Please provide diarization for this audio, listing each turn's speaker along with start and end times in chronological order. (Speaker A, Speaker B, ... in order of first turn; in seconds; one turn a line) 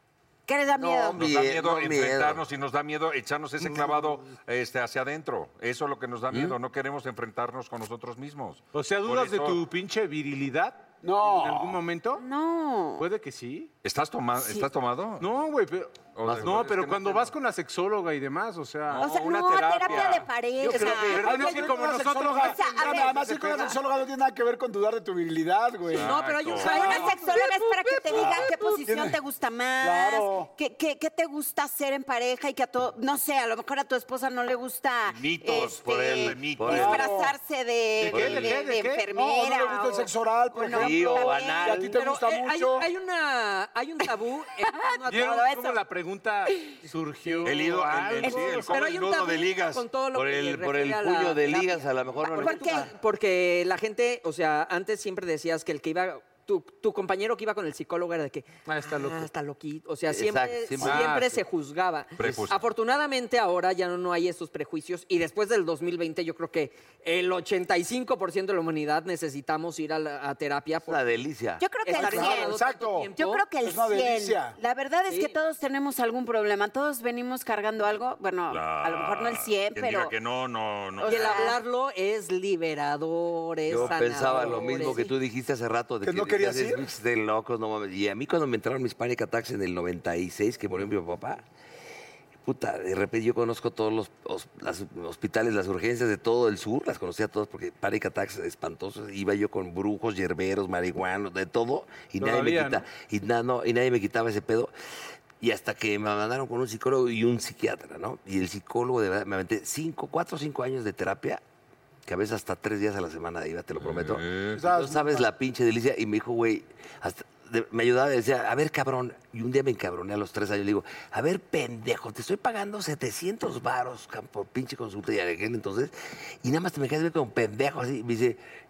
Speaker A: 0.5-1.2
Speaker B: 0.8-2.4
Speaker C: 1.1-9.6
Speaker B: 6.3-6.6
Speaker D: 8.7-12.2
Speaker E: 11.0-11.8
Speaker A: 12.1-13.1
Speaker D: 13.0-13.7
Speaker C: 13.8-15.2
Speaker A: 14.4-14.7
Speaker D: 15.2-19.0
Speaker C: 16.1-17.3
Speaker B: 16.2-16.6
Speaker C: 18.9-20.3
Speaker A: 18.9-21.6
Speaker B: 20.6-21.4
Speaker F: 20.7-21.5
Speaker D: 20.9-23.6
Speaker E: 21.2-26.1
Speaker A: 22.4-23.8
Speaker C: 25.9-27.0
Speaker F: 25.9-27.2
Speaker A: 26.6-41.8
Speaker E: 26.6-27.1
Speaker E: 28.1-29.2
Speaker E: 29.8-30.5
Speaker C: 35.0-37.0
Speaker B: 35.6-37.1
Speaker E: 36.6-37.3
Speaker D: 38.0-39.0
Speaker B: 38.1-38.7
Speaker E: 39.1-42.9
Speaker B: 40.7-41.8
Speaker F: 41.7-45.5
Speaker A: 44.9-45.8
Speaker D: 45.1-48.7
Speaker C: 47.4-49.8
Speaker A: 48.2-48.7
Speaker F: 48.7-71.0
Speaker B: 50.1-52.9
Speaker A: 52.4-52.9
Speaker D: 58.6-59.3
Speaker B: 60.1-61.3
Speaker D: 60.8-61.3
Speaker C: 62.2-62.6
Speaker B: 62.2-62.5
Speaker B: 70.9-71.6
Speaker A: 71.6-72.6
Speaker F: 71.8-73.4
Speaker E: 71.9-73.1
Speaker A: 73.2-80.1
Speaker E: 73.6-74.6
Speaker F: 75.1-75.3
Speaker C: 78.5-81.5
Speaker A: 81.0-81.6
Speaker F: 81.0-85.1
Speaker B: 83.7-91.4
Speaker E: 86.0-86.8
Speaker B: 92.4-104.7
Speaker D: 102.2-102.8
Speaker B: 105.4-111.4
Speaker B: 112.1-128.4
Speaker C: 113.8-114.6
Speaker E: 114.5-115.3